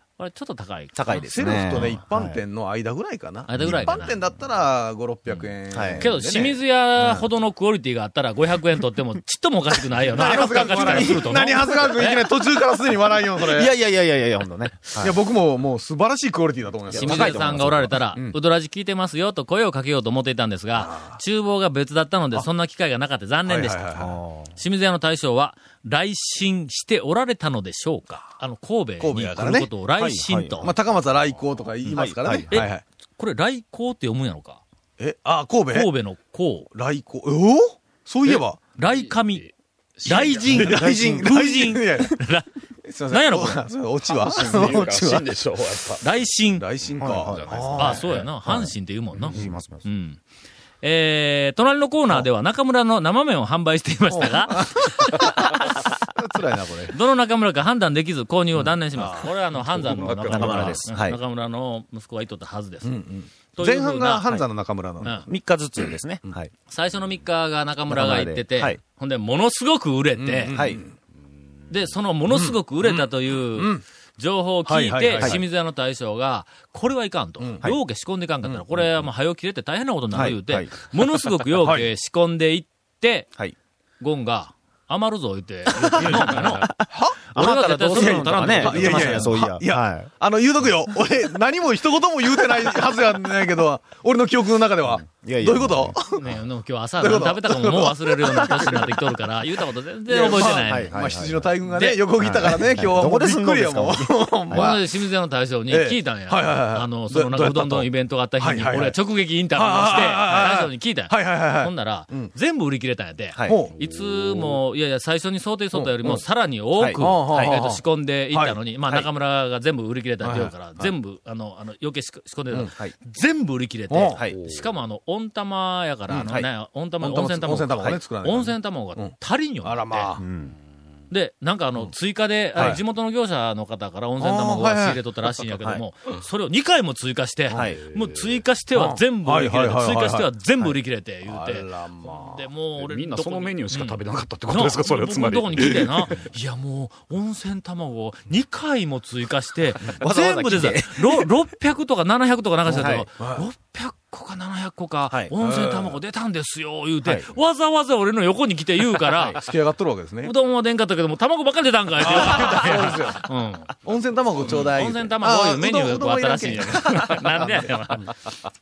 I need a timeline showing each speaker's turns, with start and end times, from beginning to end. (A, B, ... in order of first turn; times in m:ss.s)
0:00.2-0:02.0 A
0:00.9-0:02.4 B
0:01.1-0:06.6 C
0:03.5-0:04.2 A
0:05.7-0:06.1 B
0:06.0-0:12.2 A
0:10.0-0:13.7 C
0:10.1-0:11.8 B
0:13.4-0:15.2 B
0:15.0-0:17.6 C
0:16.9-0:17.9 B
0:16.9-0:23.8 A
0:20.8-0:21.2 C
0:23.4-0:24.1 C
0:23.9-0:24.6 B
0:24.6-0:30.7 A
0:29.0-0:29.7 C
0:30.0-0:30.8 B
0:30.6-0:32.8 C
0:31.9-0:32.7 B
0:32.5-0:34.6 A
0:35.0-0:35.9 C
0:35.7-0:36.7 A
0:36.7-0:38.6 C
0:38.2-0:39.5 A
0:38.9-0:39.4 D
0:40.0-0:41.0 D
0:40.0-0:42.5 A
0:40.5-0:42.2 C
0:40.8-0:41.2 B
0:42.8-0:45.4 C
0:43.1-0:43.6 A
0:44.2-0:46.0 D
0:46.0-0:46.6 A
0:46.6-0:48.0 C
0:47.0-0:49.9 B
0:47.1-0:48.1 D
0:47.8-0:50.2 A
0:50.8-0:55.9 A
0:54.1-0:56.9 C
0:56.9-1:03.0 A
0:58.9-0:59.3 C
0:59.7-1:00.8 D
1:00.0-1:01.2 B
1:02.8-1:05.2 C
1:03.5-1:04.3 A
1:05.0-1:05.3 A
1:05.0-1:06.5 B
1:06.7-1:10.6 A
1:07.9-1:08.8 B
1:10.2-1:10.9 C
1:10.5-1:10.8 B
1:11.7-1:23.3 A
1:12.3-1:13.8 C
1:14.6-1:15.4 C
1:17.4-1:17.7 C
1:20.1-1:20.7 B
1:21.6-1:21.9 C
1:24.0-1:26.7 A
1:25.8-1:30.1 B
1:26.0-1:27.2 C
1:27.3-1:29.4 A
1:27.9-1:36.2 C
1:34.8-1:36.0 B
1:36.1-1:40.9 A
1:37.0-1:38.9 C
1:38.3-1:38.8 B
1:40.1-1:44.9 C
1:40.6-1:41.5 B
1:41.7-1:42.0 A
1:42.2-1:44.7 B
1:44.5-2:10.1 A
1:45.7-1:49.0 C
1:49.5-1:52.3 C
1:53.3-1:53.6 B
1:53.4-1:53.7 C
1:53.9-1:54.6 D
1:55.7-1:56.2 C
1:56.7-1:57.6 B
1:57.0-1:57.8 C
1:58.3-1:58.6 C
2:00.2-2:00.5 C
2:02.7-2:02.9 B
2:03.9-2:04.2 C
2:04.3-2:04.6 D
2:07.0-2:10.2 C
2:10.2-2:10.6 B
2:11.1-2:39.4 A
2:12.5-2:12.8 C
2:14.2-2:15.0 C
2:15.5-2:15.8 B
2:17.5-2:17.8 B
2:17.9-2:18.4 D
2:18.7-2:20.3 C
2:21.2-2:22.4 C
2:22.7-2:26.2 D
2:29.9-2:31.3 B
2:32.6-2:33.4 C
2:32.7-2:33.1 B
2:35.4-2:36.0 C
2:37.0-2:37.3 B
2:39.2-2:40.3 C
2:40.2-2:43.7 A
2:42.0-2:43.2 C
2:43.8-2:48.0 C
2:44.4-2:48.1 A